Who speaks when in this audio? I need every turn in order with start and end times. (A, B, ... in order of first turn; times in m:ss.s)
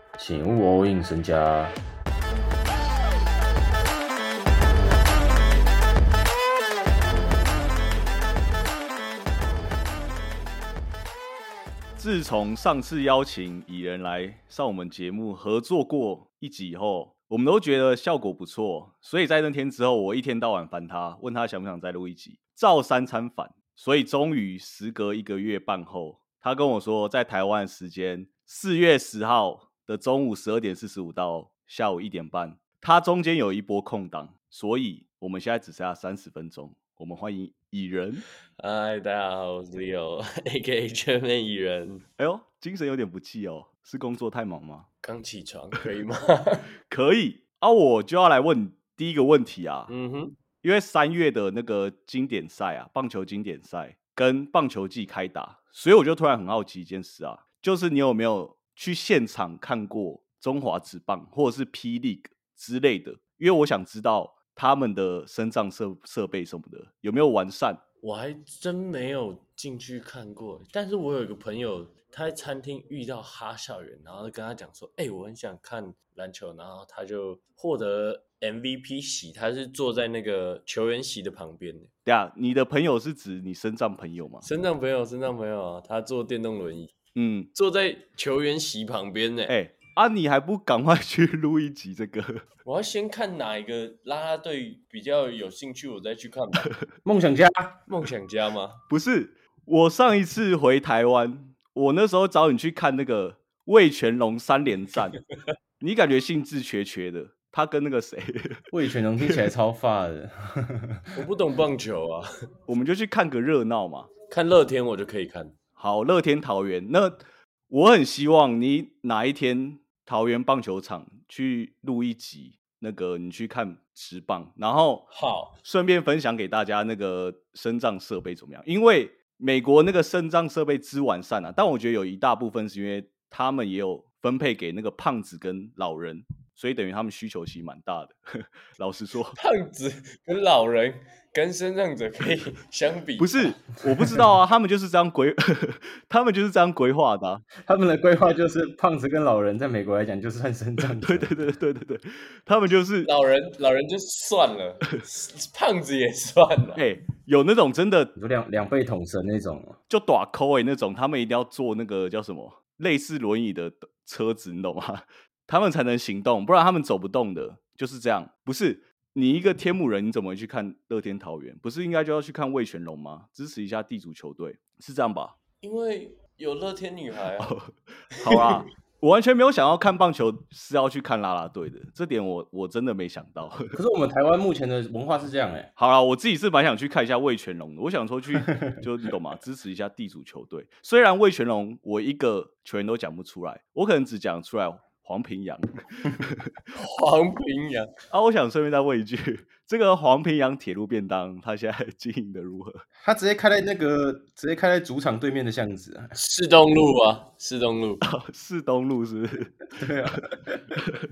0:00.2-0:01.8 A
0:12.0-0:38.3 B
0:38.6-0:42.0 C
0:42.2-0:44.9 B
0:45.0-0:46.6 C
0:46.9-0:49.9 B
0:49.9-0:50.4 C
0:50.6-1:07.8 B
1:08.0-1:21.9 C
1:22.0-1:24.5 B
1:24.4-1:26.9 C
1:27.2-1:27.5 B
1:27.6-1:29.6 C
1:29.5-1:32.4 B
1:32.6-1:36.7 C
1:37.0-1:37.8 A
1:37.9-1:38.8 C
1:38.9-1:45.2 B
1:45.8-1:48.6 B
1:48.7-1:51.0 A
1:51.1-1:52.3 C
1:52.7-1:54.1 B
1:54.3-1:55.6 C
1:55.8-2:05.1 B
2:05.1-2:05.6 C
2:05.6-2:18.2 B
2:18.7-2:19.4 B
2:19.3-2:23.6 C
2:23.2-2:27.5 B
2:27.6-2:31.3 A
2:31.0-2:33.1 B
2:33.0-2:36.8 C
2:36.8-2:38.1 B
2:38.2-2:39.8 A
2:39.9-2:55.4 B
2:55.6-2:57.6 C
2:57.4-3:03.8 B
2:58.2-2:58.5 C
3:03.7-3:05.7 A
3:05.8-3:16.5 B
3:16.8-3:17.9 C
3:18.1-3:22.8 B
3:23.0-3:26.1 A
3:26.2-3:28.0 C
3:28.0-3:29.6 B
3:29.8-3:30.6 A